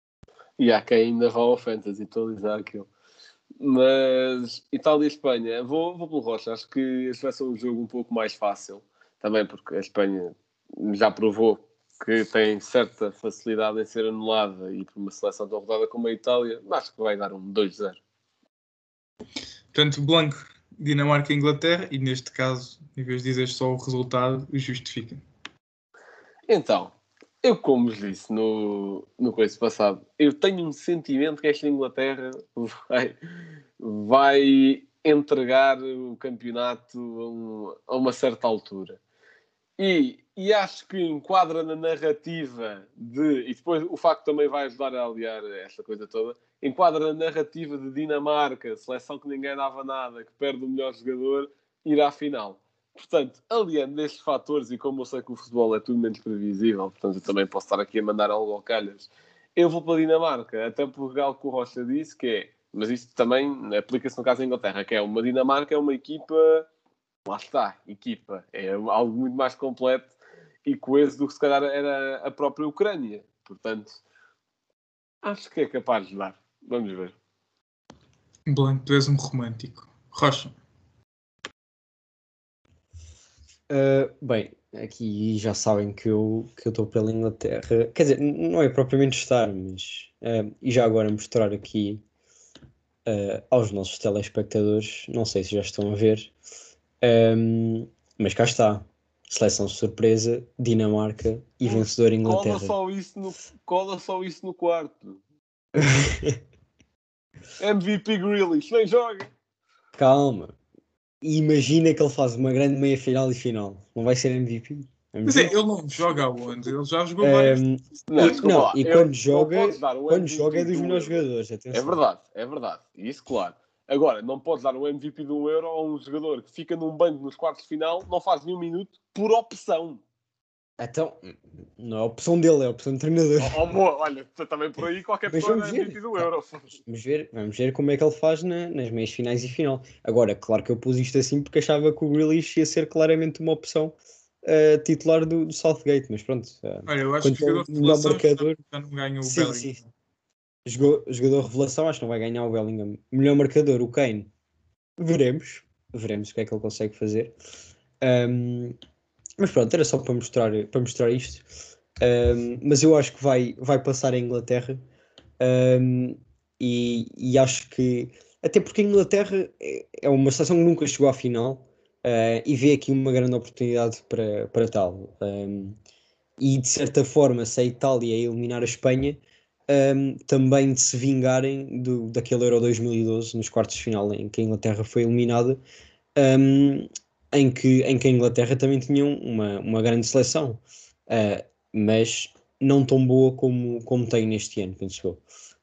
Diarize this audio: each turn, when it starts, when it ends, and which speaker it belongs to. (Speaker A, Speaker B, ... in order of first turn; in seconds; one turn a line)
Speaker A: 0.6-2.9
Speaker A: 3.6-18.0
Speaker B: 19.7-25.2
Speaker A: 26.5-33.2
Speaker A: 33.8-39.0
Speaker A: 39.8-66.7
Speaker A: 67.3-70.1
Speaker A: 70.7-74.0
Speaker A: 75.2-77.2
Speaker B: 78.5-80.5
Speaker C: 83.7-92.0
Speaker C: 93.1-96.3
Speaker C: 97.0-102.7
Speaker A: 101.7-105.2
Speaker C: 105.8-106.4
Speaker A: 107.6-109.3
Speaker C: 110.0-110.5
Speaker C: 111.2-115.5
Speaker B: 115.3-117.6
Speaker C: 117.2-122.0
Speaker A: 118.1-121.2
Speaker B: 118.2-118.5
Speaker A: 121.7-130.0
Speaker C: 130.8-133.6
Speaker A: 133.4-136.8
Speaker C: 135.3-136.3
Speaker C: 136.8-148.6
Speaker B: 146.9-149.8
Speaker C: 149.2-149.8
Speaker C: 150.7-154.3
Speaker C: 155.0-157.3
Speaker C: 158.0-158.8
Speaker C: 159.4-161.4
Speaker C: 162.0-164.8
Speaker C: 165.4-175.8
Speaker C: 176.4-185.6
Speaker C: 186.2-195.2